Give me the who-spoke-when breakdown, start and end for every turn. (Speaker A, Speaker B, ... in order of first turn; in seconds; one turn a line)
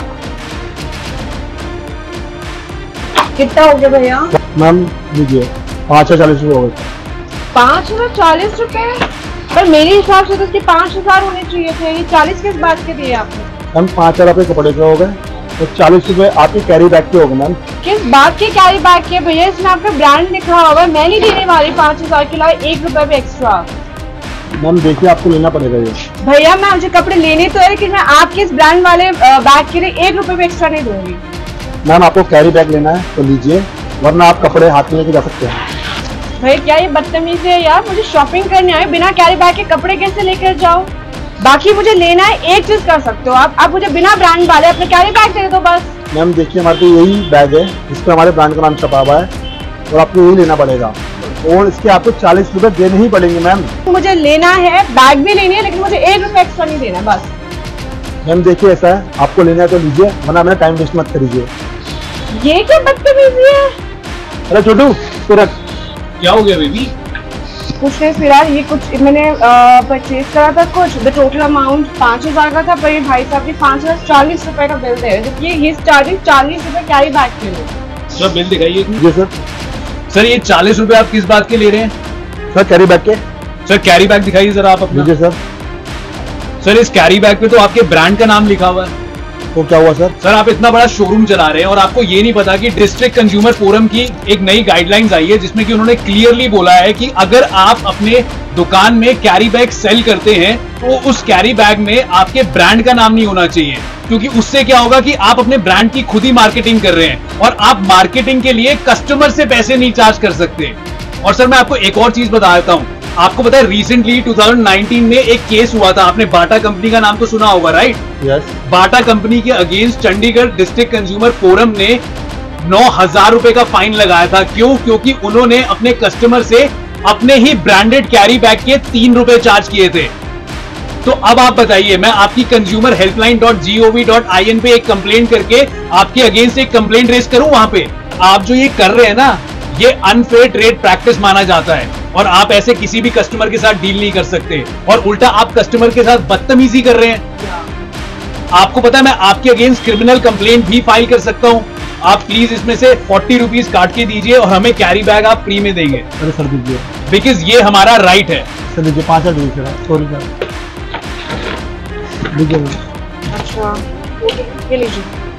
Speaker A: 3.4-4.3
Speaker B: 4.5-6.9
Speaker A: 7.5-13.5
Speaker B: 13.8-17.6
Speaker A: 17.8-23.7
Speaker B: 24.6-26.0
Speaker A: 26.2-31.2
Speaker B: 31.9-35.6
Speaker A: 36.4-40.9
Speaker A: 41.4-45.9
Speaker B: 46.1-49.3
Speaker B: 49.9-53.7
Speaker A: 53.9-57.3
Speaker B: 58.2-61.5
Speaker A: 62.3-63.8
Speaker B: 64.5-65.5
Speaker C: 66.2-66.9
Speaker A: 67.8-77.7
Speaker C: 78.2-79.0
Speaker B: 79.0-79.3
Speaker C: 80.1-81.9
Speaker B: 82.5-83.2
Speaker C: 83.7-85.1
Speaker B: 84.9-85.4
Speaker C: 86.6-88.9
Speaker B: 89.5-90.2
Speaker C: 90.2-118.0
Speaker B: 118.2-118.6
Speaker C: 118.7-122.0
Speaker C: 122.6-130.1
Speaker C: 131.0-147.2
Speaker C: 148.5-156.1
Speaker B: 156.2-156.9
Speaker C: 157.1-158.5
Speaker B: 158.7-160.3
Speaker B: 162.3-162.8
Speaker A: 163.3-165.1